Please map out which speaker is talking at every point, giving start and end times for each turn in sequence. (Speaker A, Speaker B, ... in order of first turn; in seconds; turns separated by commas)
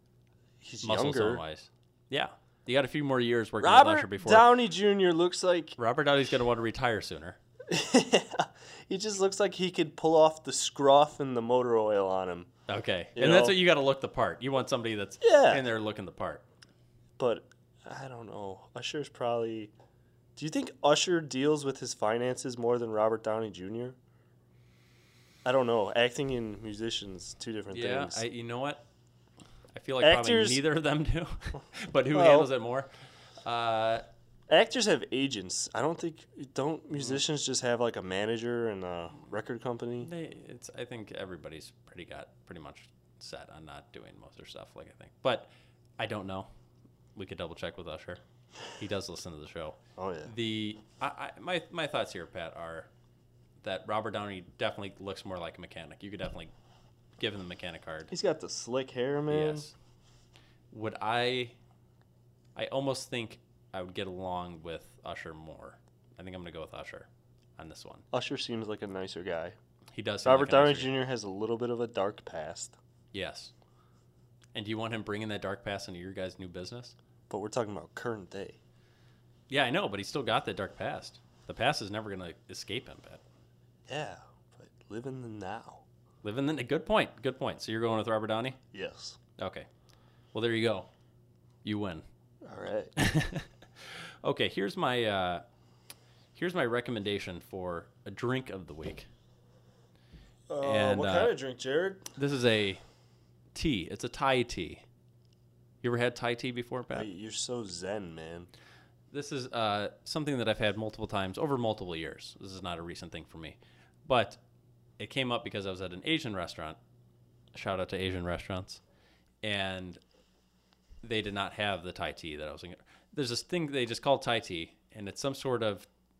Speaker A: 0.6-1.4, Speaker B: 0.8-4.5, Speaker A: 3.6-5.8, Speaker B: 5.8-7.4, Speaker A: 7.7-12.5, Speaker B: 12.7-16.4, Speaker A: 13.2-13.6, Speaker A: 15.2-15.7, Speaker A: 17.2-19.7, Speaker A: 20.4-23.9, Speaker A: 25.4-28.2, Speaker B: 27.7-28.8, Speaker B: 29.7-32.9, Speaker A: 30.0-30.6, Speaker A: 32.1-32.5, Speaker B: 33.4-34.0, Speaker A: 34.5-40.1, Speaker B: 40.0-46.5, Speaker B: 47.1-48.2, Speaker B: 48.7-52.9, Speaker A: 50.0-50.3, Speaker B: 53.6-56.5, Speaker B: 57.2-58.1, Speaker A: 58.1-59.7, Speaker B: 59.3-59.7, Speaker B: 60.7-61.5, Speaker B: 62.5-68.0, Speaker A: 68.1-69.5, Speaker B: 69.9-70.9, Speaker A: 70.2-72.8, Speaker B: 73.1-73.5, Speaker B: 74.5-76.9, Speaker A: 77.3-78.6, Speaker B: 79.5-83.2, Speaker A: 83.9-85.8, Speaker B: 86.2-88.6, Speaker A: 88.7-89.2, Speaker B: 89.4-89.7, Speaker B: 90.3-90.9, Speaker B: 91.6-92.0, Speaker A: 92.4-92.9, Speaker B: 93.0-95.4, Speaker B: 96.3-99.1, Speaker A: 100.5-102.1, Speaker B: 100.6-101.3, Speaker B: 102.2-102.8, Speaker B: 103.5-104.8, Speaker B: 105.8-107.1, Speaker A: 106.9-108.5, Speaker B: 109.1-114.4, Speaker B: 115.0-116.8, Speaker B: 117.5-118.8, Speaker B: 119.4-120.0, Speaker B: 121.0-125.9